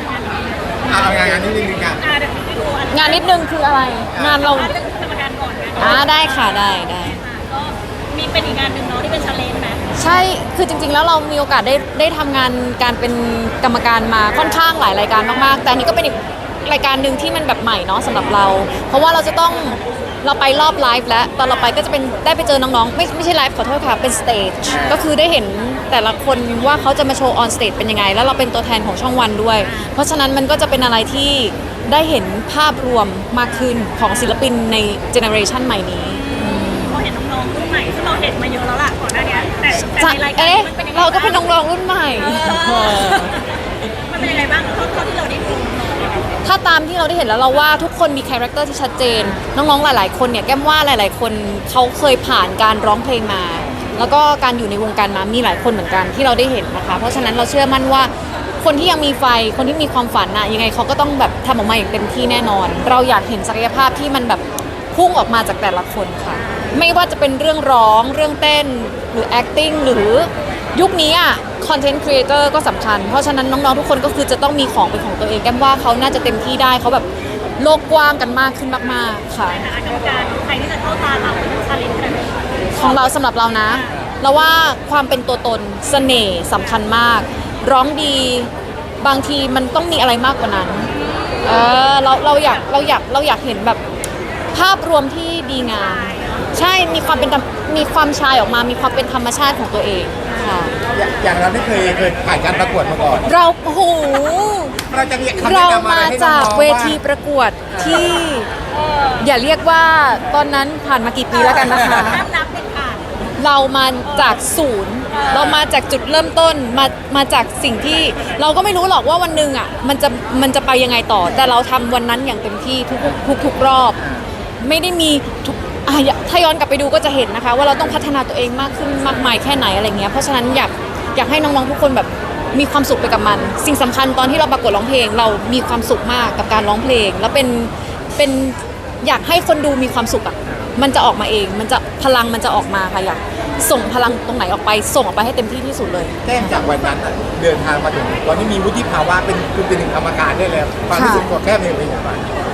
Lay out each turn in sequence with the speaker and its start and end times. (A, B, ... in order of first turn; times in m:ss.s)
0:00.2-0:00.6 A
0:00.8-0:02.0 B
0:02.0-0:03.5 A
0:02.9-0:04.7 C
0:04.1-0:04.4 B
0:04.3-0:10.0 A
0:05.8-0:07.2 C
0:10.0-0:37.0 C
0:29.6-0:29.9 A
0:36.1-0:41.5 A
0:40.0-0:43.4 C
0:42.2-0:43.6 A
0:44.1-0:46.2 A
0:46.4-1:17.1 C
1:06.3-1:06.8 A
1:17.6-1:19.7 C
1:19.5-1:22.4 A
1:22.7-1:30.9 C
1:31.3-1:31.7 A
1:31.4-1:33.8 C
1:34.5-1:40.8 C
1:35.6-1:36.4 A
1:40.9-1:43.3 B
1:43.2-1:44.8 C
1:44.9-1:47.0 B
1:45.4-1:48.5 C
1:47.7-1:48.0 B
1:48.7-1:49.3 A
1:49.2-1:52.2 C
1:51.3-1:53.1 A
1:53.4-2:04.0 C
1:54.1-1:54.4 A
1:55.1-1:55.6 A
2:04.6-2:26.6 C
2:26.2-2:32.3 B
2:30.9-2:31.4 C